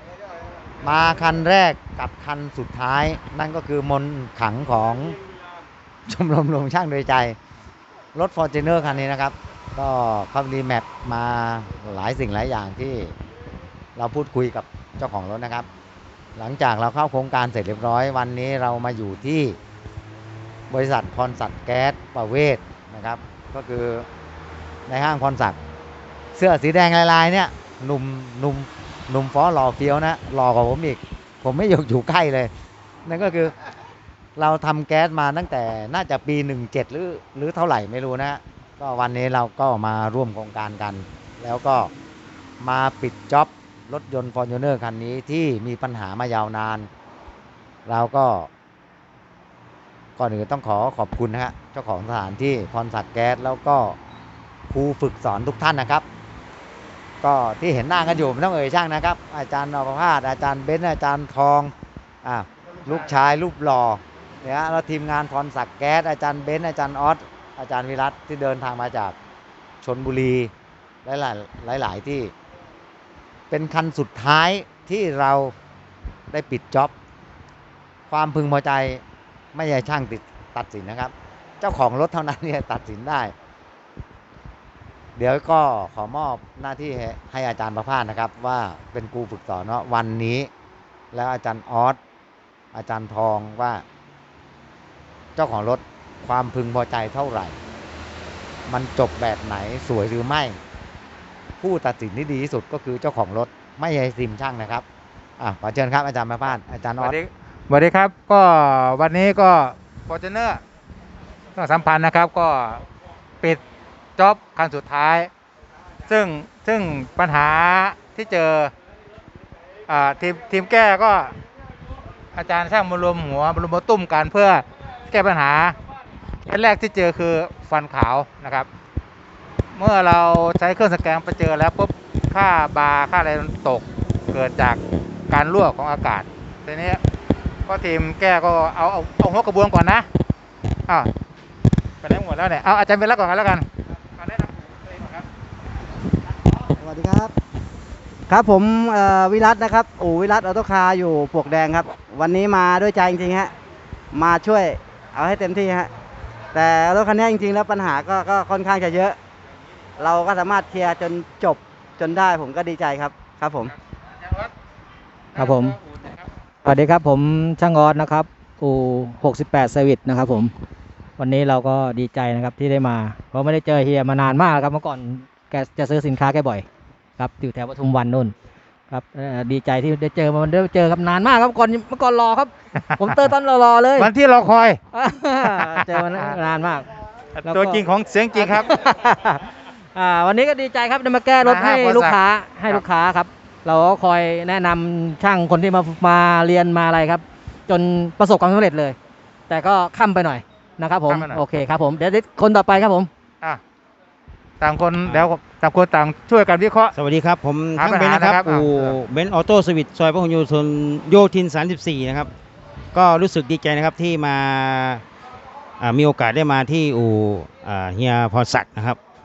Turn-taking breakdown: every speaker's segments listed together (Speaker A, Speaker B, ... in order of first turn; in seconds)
Speaker A: 0.8-5.2, 6.1-7.4, 8.1-13.1, 13.9-15.7, 16.4-19.6, 20.7-24.1, 24.9-25.6, 26.3-32.5, 33.0-33.5, 34.4-41.9, 42.6-46.9, 47.9-48.5, 50.2-54.0, 54.7-56.0, 57.2-61.7, 62.2-69.1, 69.8-70.5, 71.0-72.3, 73.5-75.5, 76.3-76.9, 78.1-79.0, 79.5-83.3, 85.2-90.5, 91.1-92.0, 92.7-93.8, 95.3-97.5, 98.7-100.6, 101.6-104.8, 105.4-107.2
Speaker B: 107.0-110.6, 111.5-112.8, 114.2-115.3, 116.1-118.7, 119.9-121.3, 122.3-125.8, 126.5-128.7, 129.7-134.8, 135.3-137.0, 137.7-140.1, 142.0-143.7, 144.2-145.2, 165.4-166.1, 183.9-184.8, 185.4-186.3, 187.4-188.7, 191.4-192.8, 201.1-201.4, 204.6-206.9, 207.7-209.0
Speaker C: 146.8-147.3, 148.3-153.5, 154.1-155.9, 156.5-159.2, 160.0-163.7
Speaker D: 165.3-165.8, 166.6-170.5, 171.2-176.6, 177.2-178.3, 178.9-184.1, 184.9-186.9, 187.4-198.9, 199.5-203.1
Speaker E: 206.9-212.3, 212.9-215.0, 215.8-219.0